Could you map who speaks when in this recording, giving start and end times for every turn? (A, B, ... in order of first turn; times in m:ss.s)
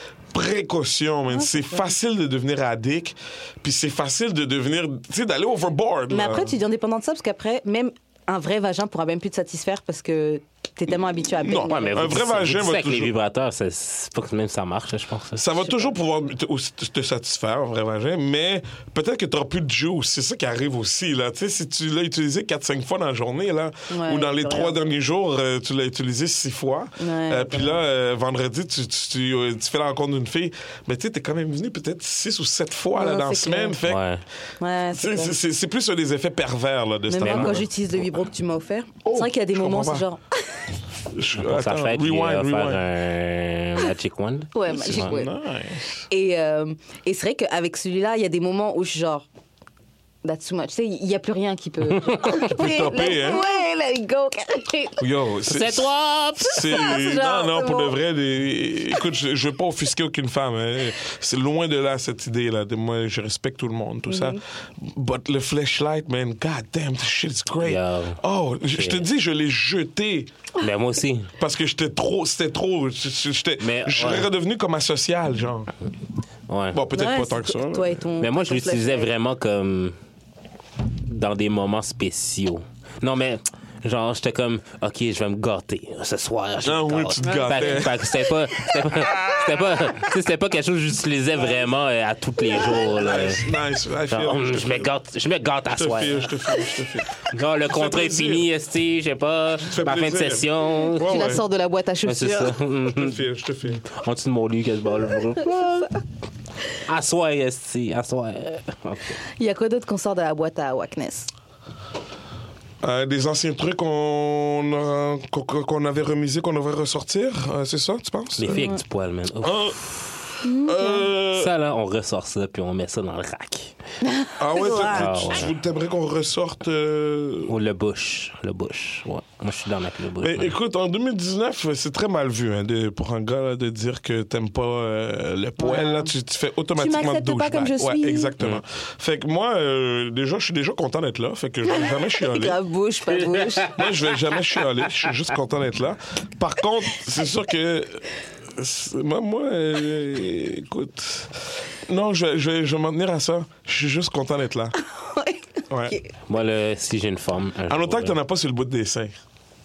0:00.3-0:06.6 A
0:01.3-0:01.9 B
0:06.1-0:12.2 B
0:11.4-0:13.1 A
0:11.7-0:15.4 C
0:15.4-0:34.0 A
0:15.6-0:15.9 B
0:23.9-0:24.8 B
0:27.0-0:27.8 B
0:32.9-0:33.8 B
0:33.8-0:34.2 C
0:34.6-0:35.4 B
0:34.9-0:37.7 A
0:37.1-0:40.2 B
0:37.2-0:37.6 C
0:39.0-0:40.1 A
0:41.1-0:42.8 A
0:41.4-0:45.1 C
0:44.5-0:45.3 B
0:44.7-0:46.1 A
0:46.1-0:49.3 B
0:50.2-0:55.0 B
0:51.9-0:52.5 C
0:52.4-0:53.4 A
0:55.0-1:10.3 A
0:55.4-0:56.8 C
0:56.5-0:58.0 B
1:04.1-1:04.4 B
1:07.6-1:08.2 C
1:08.7-1:09.0 C
1:10.6-1:11.3 C
1:11.4-1:15.7 A
1:13.6-1:14.3 C
1:16.5-1:16.8 C
1:16.7-1:18.0 A
1:16.9-1:19.1 B
1:18.2-1:20.0 C
1:21.0-1:33.5 C
1:26.6-1:28.1 A
1:27.2-1:27.8 B
1:32.8-1:34.9 A
1:34.1-1:36.3 C
1:35.7-1:38.5 A
1:37.3-1:41.1 C
1:39.7-1:41.4 A
1:41.0-1:42.6 B
1:42.0-1:43.2 C
1:42.9-1:43.8 A
1:43.8-1:45.9 C
1:45.4-1:45.9 B
1:46.8-1:49.2 C
1:49.4-1:51.3 B
1:52.8-1:58.6 A
1:58.4-2:00.1 C
1:58.5-1:58.8 B
1:59.4-1:59.8 A
2:00.4-2:01.1 B
2:00.6-2:01.5 A
2:01.3-2:03.7 C
2:04.0-2:05.3 B
2:04.4-2:07.5 A
2:04.8-2:05.5 C
2:07.5-2:10.5 C
2:10.2-2:22.6 A
2:15.6-2:16.1 B
2:16.8-2:18.3 B
2:21.7-2:23.8 B
2:23.7-2:34.8 A
2:34.8-2:36.1 B
2:35.7-2:36.0 A
2:36.3-2:38.2 C
2:37.7-2:39.2 A